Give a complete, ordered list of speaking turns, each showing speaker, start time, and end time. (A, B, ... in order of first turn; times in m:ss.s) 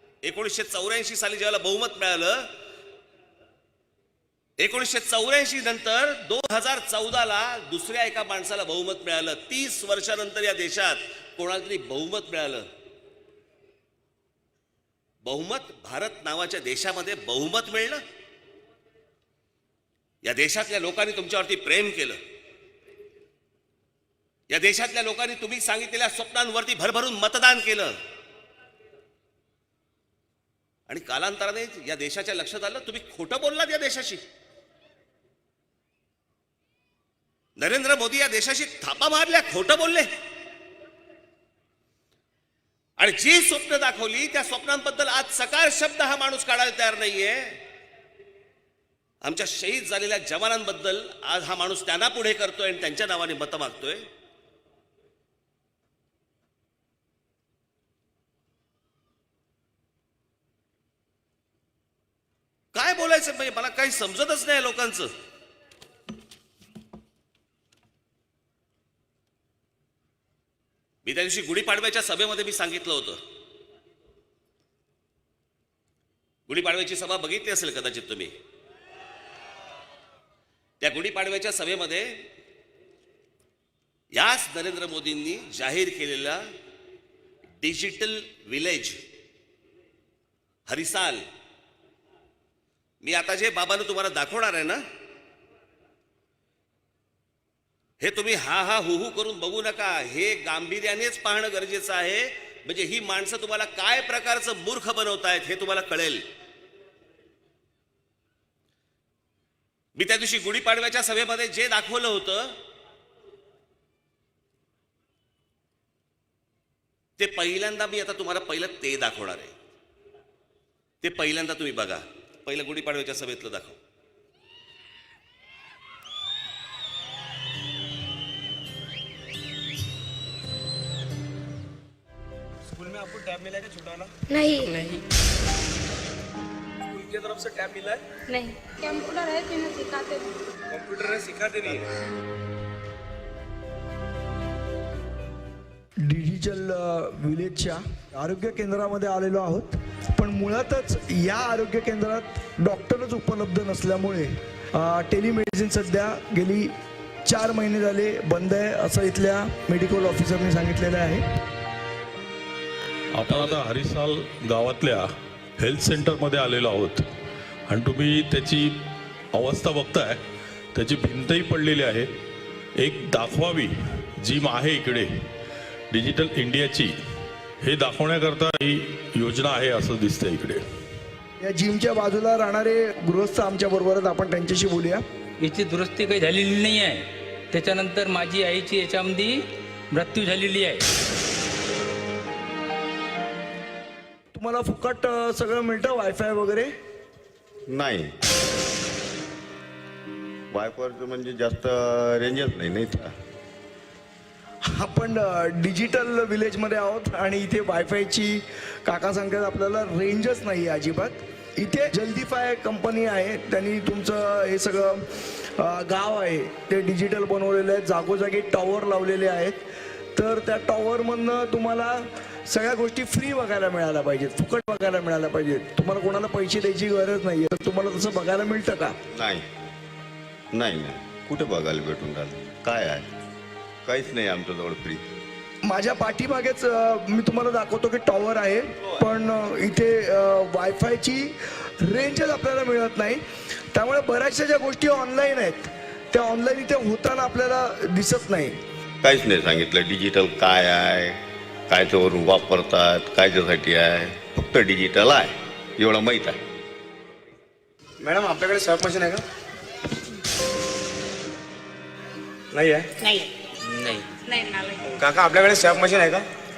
0:00.2-0:02.5 A
0:04.6-0:12.6 A
0:15.2-0:18.0 A
0:20.2-0:22.2 A
0:24.5-0:27.9 A
0:30.9-0:34.2 A
0:37.6-0:40.1 A
0:43.0-0:47.6 A
0:49.2-0:54.0 A
1:02.7-1:05.1 A
1:11.0-1:13.2 A
1:16.5-1:18.3 A
1:20.8-1:22.1 A
1:24.1-1:26.4 A
1:27.6-1:29.0 A
1:30.7-1:31.2 A
1:33.0-1:34.8 A
1:38.0-1:46.2 A
1:50.0-1:52.5 A
1:57.2-1:59.5 A
2:01.0-2:03.8 A
2:12.7-2:14.1 B
2:14.4-2:15.0 C
2:16.9-2:18.0 B
2:18.3-2:20.3 C
2:20.7-2:21.9 B
2:26.0-2:36.7 D
2:37.3-2:41.2 D
2:43.1-2:45.1 E
2:45.6-2:47.0 E
2:47.7-2:48.7 E
2:49.3-2:50.2 E
2:50.7-2:52.1 E
2:52.8-2:53.7 E
2:54.2-2:55.1 E
2:55.9-2:56.9 E
2:57.6-3:00.6 E
3:01.4-3:05.0 D
3:05.4-3:07.0 F
3:07.5-3:09.4 F
3:09.9-3:10.8 F
3:14.3-3:16.7 D
3:17.7-3:18.1 G
3:20.5-3:23.1 G
3:24.7-3:35.0 D
3:35.6-3:39.6 D
3:40.2-3:48.9 D
3:49.1-3:49.5 G
3:50.5-3:53.1 G
3:53.8-3:55.1 G
3:55.6-4:03.2 D
4:03.7-4:08.6 D
4:09.0-4:16.4 G
4:18.0-4:19.2 B
4:22.5-4:22.8 B
4:23.0-4:23.2 C
4:24.2-4:24.9 C
4:24.9-4:26.2 B